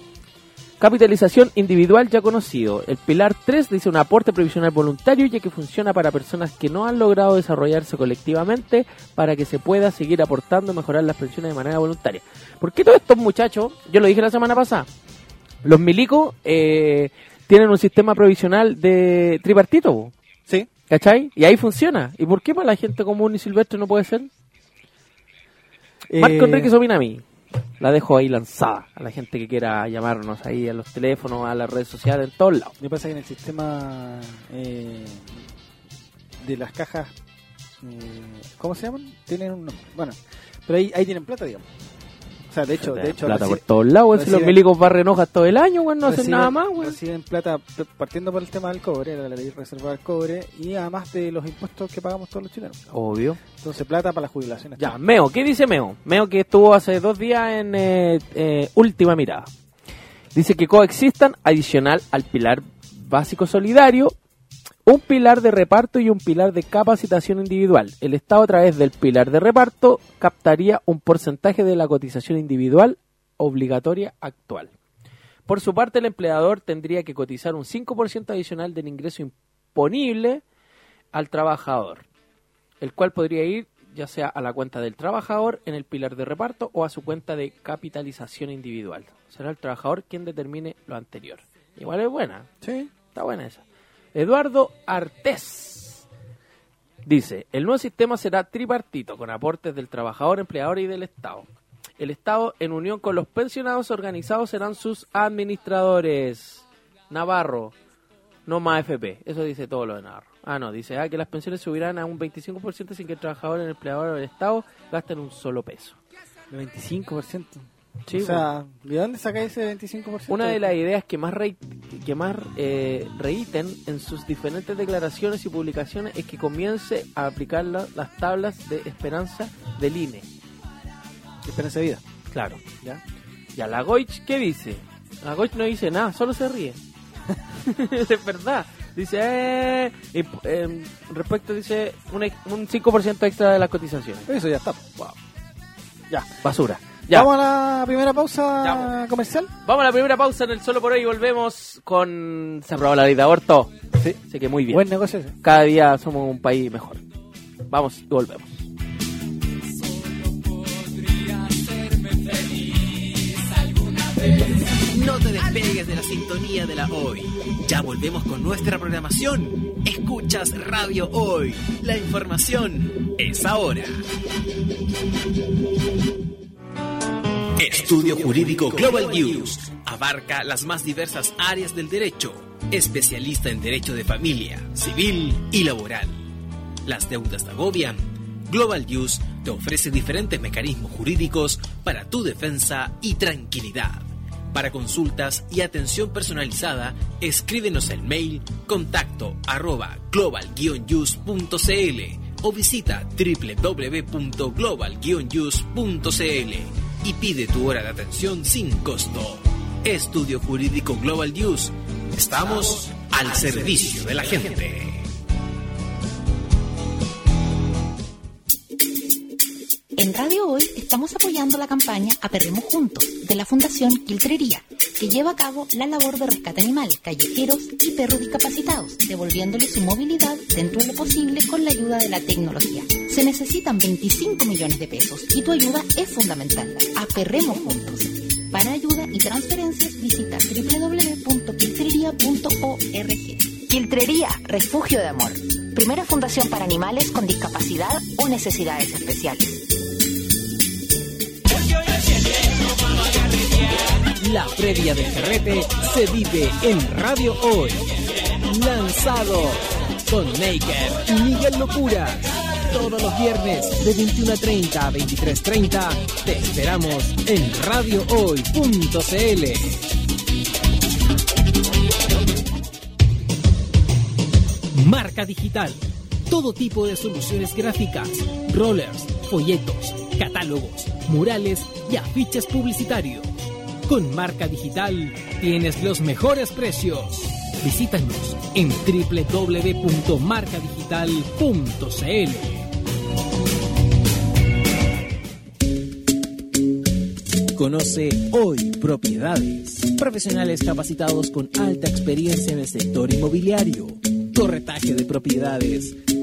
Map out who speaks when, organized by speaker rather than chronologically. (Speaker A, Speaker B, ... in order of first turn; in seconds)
Speaker A: 0.8-14.9, 15.6-20.1, 20.9-24.3, 26.1-27.2, 27.8-32.7, 42.7-47.0, 52.9-53.4, 54.8-59.5, 60.3-64.2, 64.8-74.7, 75.5-80.4, 81.1-82.0, 82.8-92.5, 93.1-93.6, 94.1-96.0, 97.0-101.5, 102.0-107.7, 108.5-116.0, 118.1-118.5, 120.3-130.3, 132.3-132.6, 133.6-136.8, 137.6-144.3, 146.4-147.3, 148.6-148.9, 149.6-153.7, 154.3-154.8, 155.4-157.0, 157.7-158.6
Speaker B: 26.1-26.7, 32.8-35.4, 36.4-37.1, 37.8-41.6, 42.5-44.6, 46.0-52.8, 53.6-55.0, 92.6-92.9, 116.5-120.7, 131.4-132.0, 144.2-145.1, 147.1-149.5, 154.0-155.3
Speaker C: 163.9-174.0, 177.6-186.2, 186.8-215.0, 298.1-299.4, 300.0-304.0, 305.2-305.7
Speaker D: 219.9-249.6
Speaker E: 254.2-257.9, 258.4-269.8, 274.7-292.7